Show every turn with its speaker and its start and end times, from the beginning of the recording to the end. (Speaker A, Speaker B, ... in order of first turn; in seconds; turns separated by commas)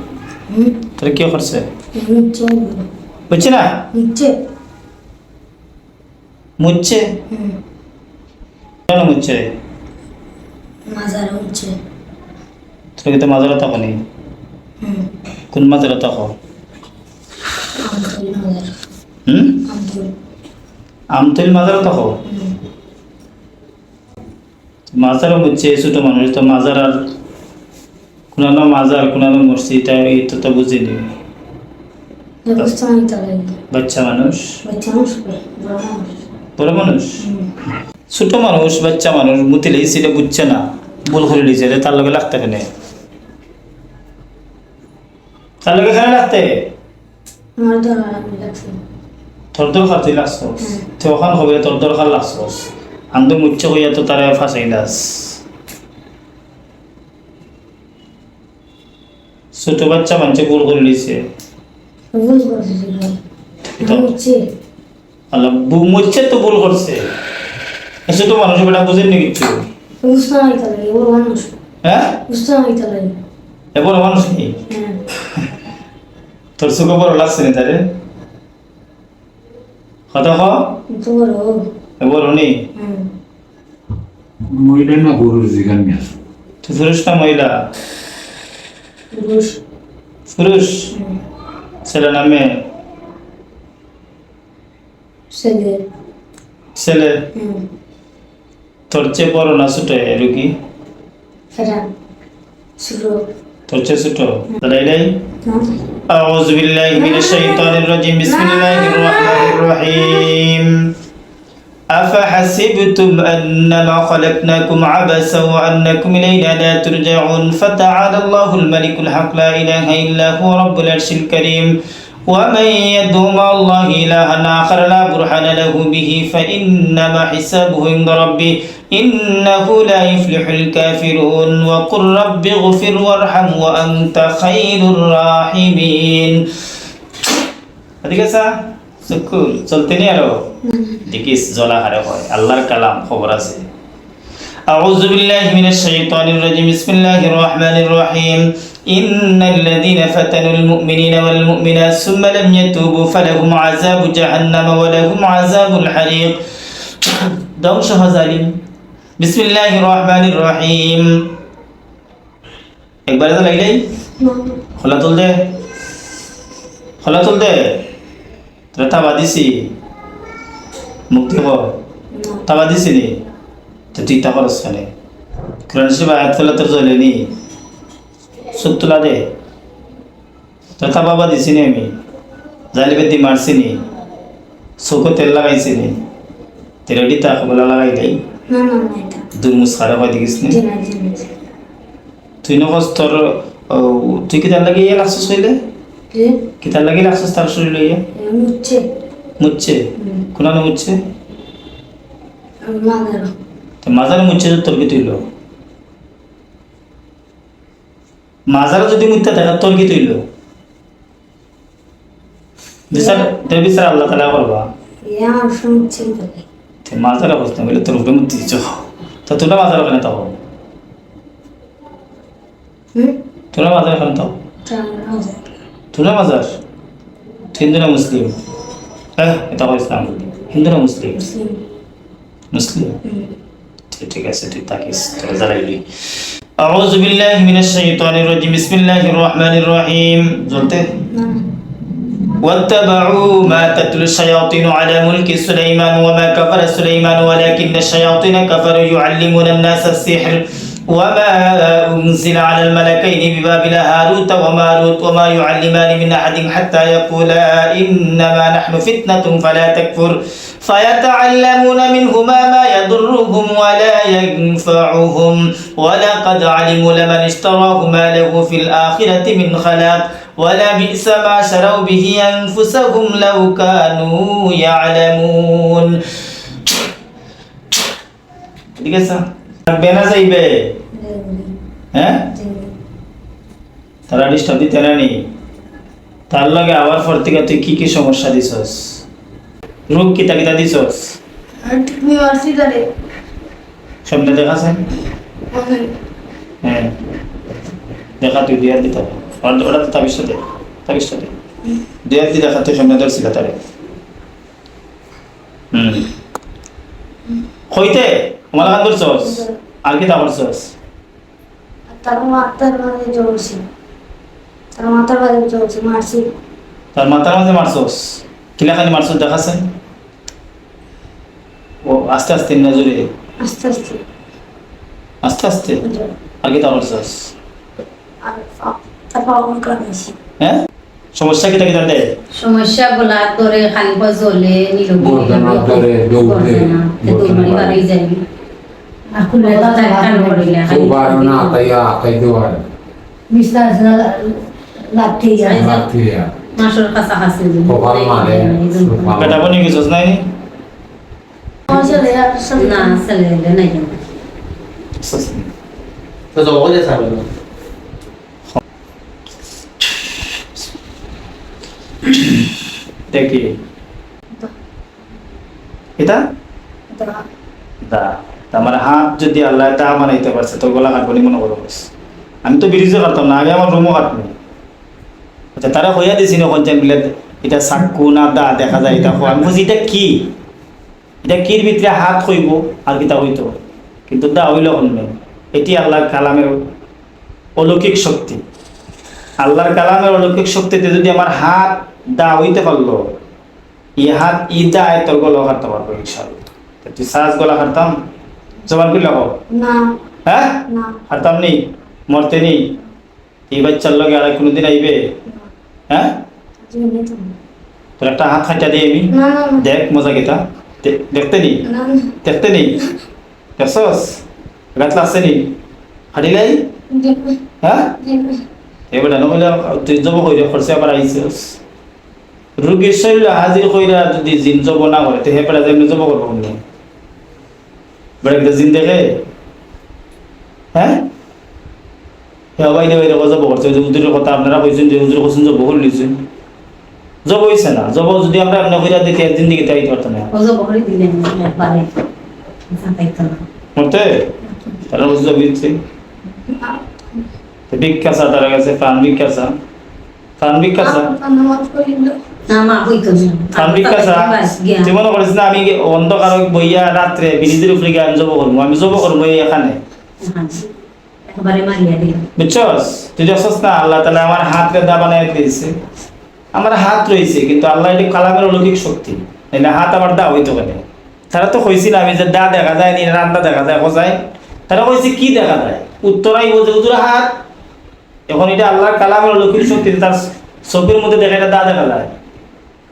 Speaker A: 0.5-0.8, Speaker B: 1.0-1.7, Speaker A: 2.0-2.9, Speaker B: 3.3-3.7, Speaker A: 3.9-4.3, Speaker B: 6.6-7.0, Speaker B: 8.9-9.5, Speaker A: 10.9-11.7, Speaker B: 13.0-14.0, Speaker B: 15.5-16.3, Speaker A: 17.8-18.7, Speaker B: 19.3-19.6, Speaker A: 19.7-20.1, Speaker B: 21.1-22.1, Speaker A: 22.3-22.5, Speaker B: 24.9-27.0, Speaker B: 28.3-31.0, Speaker A: 32.5-33.5, Speaker B: 33.7-34.5, Speaker A: 34.6-36.1, Speaker B: 36.6-37.2, Speaker A: 37.2-37.5, Speaker B: 38.1-42.7, Speaker B: 45.6-46.7, Speaker A: 47.6-48.8, Speaker B: 49.5-55.4, Speaker B: 59.6-61.2, Speaker A: 62.1-63.2, Speaker B: 63.8-64.1, Speaker A: 63.8-64.4, Speaker B: 65.3-67.1, Speaker B: 68.1-69.6, Speaker A: 70.0-71.5, Speaker B: 71.8-72.2, Speaker A: 72.3-73.1, Speaker B: 73.8-74.6, Speaker A: 74.7-75.0, Speaker B: 76.6-77.8, Speaker B: 80.1-80.5, Speaker A: 80.9-81.6, Speaker B: 82.0-82.5, Speaker A: 82.8-83.0, Speaker C: 84.5-86.1, Speaker B: 86.6-87.5, Speaker A: 89.1-89.6, Speaker B: 90.3-90.9, Speaker B: 91.8-92.6, Speaker A: 95.3-95.8, Speaker B: 96.8-97.2, Speaker A: 97.3-97.6, Speaker B: 98.9-100.5, Speaker A: 101.5-101.9, Speaker A: 102.8-103.2, Speaker B: 103.7-105.1, Speaker B: 106.1-110.7, Speaker A: 107.0-109.6, Speaker B: 111.9-121.7, Speaker B: 122.3-136.4, Speaker B: 138.0-138.5, Speaker B: 139.0-140.4, Speaker A: 140.7-141.0, Speaker B: 141.1-143.6, Speaker B: 144.7-156.4, Speaker B: 157.0-158.5, Speaker B: 159.2-161.1, Speaker B: 163.1-163.8, Speaker A: 164.2-164.6, Speaker B: 164.8-165.4, Speaker B: 167.0-167.8, Speaker B: 168.7-169.7, Speaker B: 171.1-171.7, Speaker A: 172.1-172.5, Speaker B: 172.5-173.1, Speaker B: 173.9-174.9, Speaker B: 175.7-177.3, Speaker B: 178.5-179.2, Speaker B: 180.8-181.9, Speaker B: 182.7-183.8, Speaker B: 184.8-186.0, Speaker B: 186.9-188.2, Speaker A: 188.5-189.2, Speaker B: 189.3-190.6, Speaker A: 190.4-191.3, Speaker B: 192.4-195.6, Speaker A: 196.1-196.4, Speaker B: 196.6-198.0, Speaker A: 198.2-198.8, Speaker B: 199.4-199.8, Speaker A: 200.0-200.2, Speaker B: 200.3-201.0, Speaker A: 202.6-203.3, Speaker B: 203.8-205.2, Speaker B: 208.5-210.2, Speaker B: 212.9-214.7, Speaker A: 212.9-213.2, Speaker A: 215.1-216.4, Speaker B: 216.9-220.3, Speaker B: 223.5-224.3, Speaker A: 224.7-225.5, Speaker B: 225.9-226.5, Speaker B: 227.5-228.3, Speaker B: 229.2-231.2, Speaker A: 231.2-231.6, Speaker B: 232.5-233.0, Speaker A: 233.1-233.3, Speaker B: 233.9-235.8, Speaker B: 236.6-240.9, Speaker A: 241.0-241.4, Speaker B: 242.4-276.0, Speaker B: 278.8-280.6, Speaker A: 280.9-281.5, Speaker B: 281.9-282.2, Speaker A: 282.3-282.7, Speaker B: 284.1-285.2, Speaker B: 286.3-288.9, Speaker B: 289.9-291.2, Speaker A: 291.6-292.9, Speaker B: 294.1-294.8, Speaker A: 295.5-295.9, Speaker B: 296.6-296.9, Speaker B: 298.2-301.3, Speaker B: 302.1-303.6, Speaker B: 305.7-306.1, Speaker B: 307.7-310.7, Speaker A: 308.6-309.5, Speaker A: 311.9-313.6, Speaker A: 314.8-316.3, Speaker B: 316.9-319.6, Speaker B: 321.9-323.1, Speaker A: 323.4-324.0, Speaker B: 325.2-325.8, Speaker A: 325.8-326.1, Speaker B: 326.4-327.3, Speaker A: 328.2-330.1, Speaker B: 331.2-332.1, Speaker D: 332.4-338.2, Speaker C: 335.0-337.8, Speaker A: 339.1-340.6, Speaker D: 339.3-341.7, Speaker C: 340.6-342.6, Speaker A: 343.3-345.6, Speaker D: 345.3-345.9, Speaker C: 345.5-346.3, Speaker D: 346.6-349.4, Speaker C: 347.7-349.6, Speaker B: 349.2-350.2, Speaker A: 351.7-353.1, Speaker D: 351.7-352.0, Speaker D: 352.6-354.0, Speaker B: 355.0-355.5, Speaker B: 356.4-357.2, Speaker B: 362.1-362.5, Speaker B: 363.1-363.5, Speaker A: 366.9-367.2, Speaker B: 367.8-371.9, Speaker B: 372.4-374.3, Speaker B: 375.6-380.3, Speaker B: 381.2-383.5, Speaker B: 384.1-386.6, Speaker B: 387.6-388.4, Speaker B: 389.4-393.1, Speaker B: 394.0-397.9, Speaker B: 398.7-399.3, Speaker A: 399.5-399.9, Speaker B: 400.3-402.6, Speaker A: 400.7-401.0, Speaker B: 403.5-405.0, Speaker A: 406.7-407.3, Speaker B: 408.0-411.6, Speaker A: 409.1-409.6, Speaker A: 411.7-412.1, Speaker B: 412.2-412.8, Speaker B: 413.6-414.2, Speaker B: 414.8-415.5, Speaker B: 416.1-416.6, Speaker A: 416.9-417.4, Speaker B: 417.6-417.9, Speaker A: 418.0-418.4, Speaker B: 418.9-421.6, Speaker B: 422.6-426.6, Speaker B: 428.2-429.2, Speaker B: 430.8-431.0, Speaker B: 432.6-436.2, Speaker B: 437.3-440.3, Speaker D: 440.3-441.9, Speaker D: 442.7-443.4, Speaker B: 443.8-444.2, Speaker B: 444.9-445.8, Speaker A: 446.5-446.8, Speaker B: 447.7-449.5, Speaker B: 450.4-451.1, Speaker A: 450.8-452.2, Speaker D: 452.5-454.9, Speaker B: 453.6-459.8, Speaker D: 460.2-460.6, Speaker D: 461.3-462.3, Speaker B: 462.4-465.7, Speaker B: 466.5-474.2, Speaker B: 474.7-477.3, Speaker B: 478.3-482.1